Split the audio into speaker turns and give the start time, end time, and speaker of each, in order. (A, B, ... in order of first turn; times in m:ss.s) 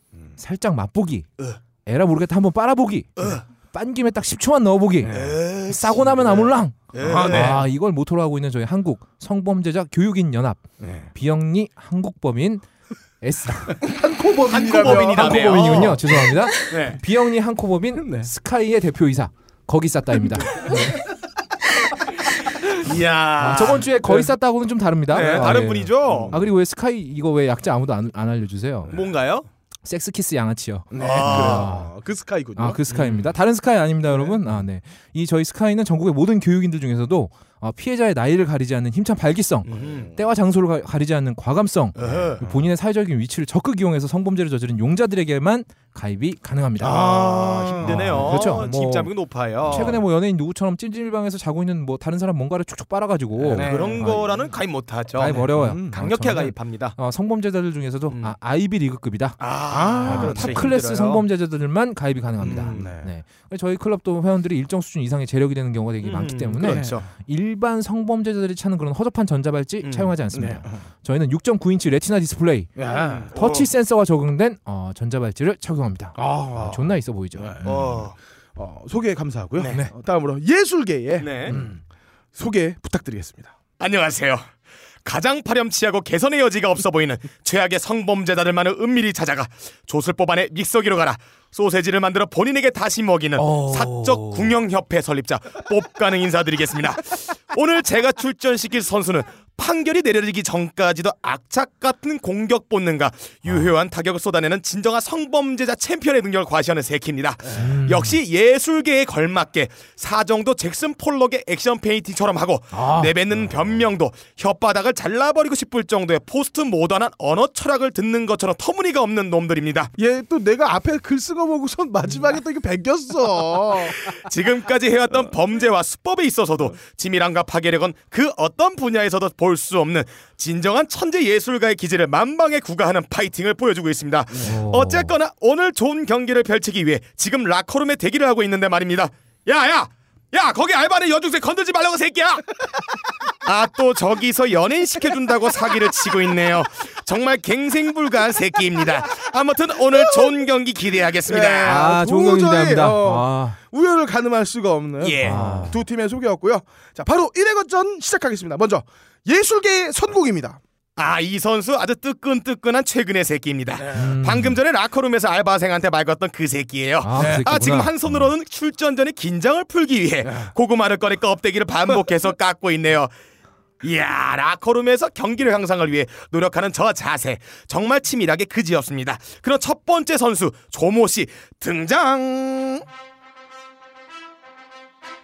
0:00.4-0:01.3 A
0:01.9-0:12.7 A
0:03.2-0:03.4 B
0:05.0-0:05.5 C
0:05.1-0:07.6 B
0:06.1-0:06.5 C
0:07.0-0:07.6 C
0:10.8-0:11.1 C
0:13.2-0:13.8 A
0:13.8-0:16.3 C
0:14.5-0:17.0 B
0:14.8-0:21.0 A
0:18.0-0:18.3 C
0:20.3-0:20.9 C
0:22.3-0:24.0 B
0:23.4-0:29.0 A
0:23.4-0:24.3 C
0:25.1-0:26.3 B
0:25.1-0:26.5 C
0:28.9-0:29.5 B
0:29.8-0:31.9 A
0:30.9-0:32.8 C
0:31.0-0:31.7 B
0:32.6-0:47.1 A
0:32.9-0:33.3 B
0:34.1-0:34.6 C
0:39.7-0:40.1 B
0:39.7-0:40.2 C
0:42.0-0:42.4 B
0:42.0-0:42.7 C
0:46.8-0:49.0 C
0:46.9-0:50.0 B
0:47.8-0:49.1 A
0:49.6-0:50.0 C
0:49.6-0:54.3 A
0:53.4-0:54.4 C
0:53.5-0:57.0 B
0:55.1-0:59.4 A
0:55.2-0:56.1 C
0:59.4-1:01.2 B
0:59.7-1:00.7 C
1:00.0-1:12.7 A
1:02.4-1:03.1 C
1:02.4-1:02.9 B
1:06.0-1:07.1 B
1:06.6-1:07.0 C
1:09.8-1:10.1 B
1:10.3-1:10.8 C
1:12.8-1:13.3 C
1:12.9-1:13.7 B
1:13.3-1:18.1 A
1:16.2-1:21.8 C
1:17.6-1:18.2 B
1:21.2-1:21.6 B
1:21.5-1:21.8 A
1:22.4-1:23.5 C
1:23.8-1:24.5 B
1:25.0-1:59.9 B
1:33.4-1:34.6 A
1:47.4-1:47.7 C
1:47.5-1:48.2 A
1:52.7-1:53.2 A
2:00.0-2:04.0 C
2:04.0-2:22.7 B
2:14.3-2:14.6 C
2:14.4-2:15.2 A
2:23.4-2:31.9 B
2:25.7-2:26.0 C
2:28.8-2:29.1 C
2:30.0-2:30.4 C
2:31.3-2:40.6 C
2:31.6-2:33.6 A
2:35.0-2:35.7 B
2:35.2-2:35.8 A
2:41.0-2:53.1 B
2:43.8-2:44.2 C
2:43.9-2:44.6 A
2:47.0-2:48.3 A
2:47.2-2:47.4 C
2:50.2-2:50.5 C
2:53.8-3:02.8 B